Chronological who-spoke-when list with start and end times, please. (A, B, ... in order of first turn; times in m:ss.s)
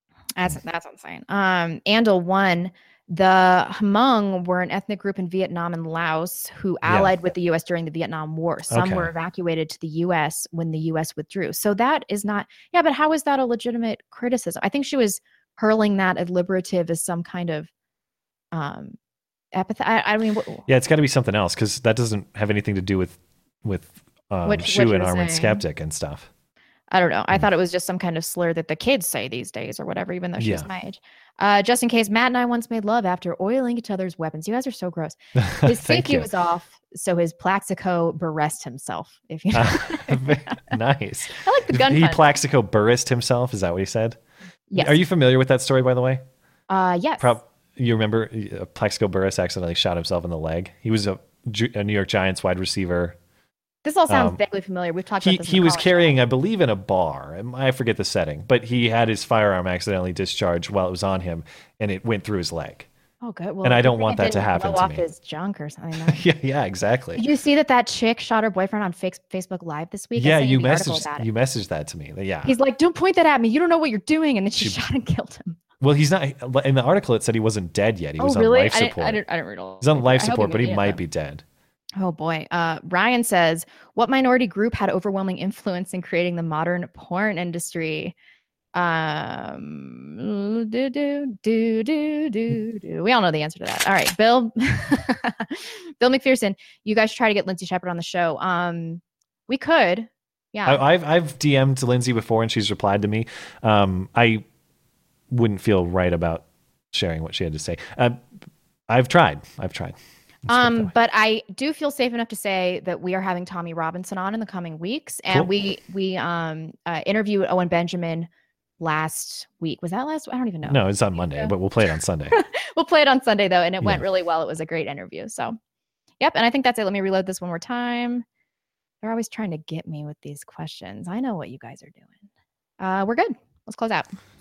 0:00.4-0:17.7 A
0:06.8-0:07.1 B
0:08.7-0:09.1 B
0:18.5-0:19.0 A
0:19.5-0:20.7 A
0:20.7-0:26.3 B
0:24.4-0:25.6 A
0:26.9-0:40.4 A
0:30.4-0:30.7 B
0:35.4-0:36.3 B
0:39.5-0:44.2 B
0:41.4-0:42.2 A
0:44.7-0:45.0 A
0:44.8-0:46.2 B
0:46.7-0:47.4 A
0:47.2-0:53.2 B
0:53.8-0:56.2 A
0:54.1-0:54.4 B
0:55.2-1:02.9 B
1:03.2-1:06.2 A
1:03.6-1:05.0 B
1:06.0-1:07.2 B
1:07.2-1:11.3 A
1:10.2-1:12.5 B
1:12.4-1:15.6 A
1:15.8-1:19.2 B
1:18.2-1:21.0 A
1:19.8-1:21.4 B
1:22.0-1:28.2 A
1:28.8-1:40.9 A
1:40.7-1:44.4 B
1:45.3-1:48.2 B
1:48.9-1:50.9 B
1:50.5-1:58.3 A
1:58.8-2:01.5 A
2:00.6-2:02.4 B
2:02.3-2:05.6 A
2:06.2-2:08.2 A
2:09.0-2:12.2 A
2:12.8-2:14.1 A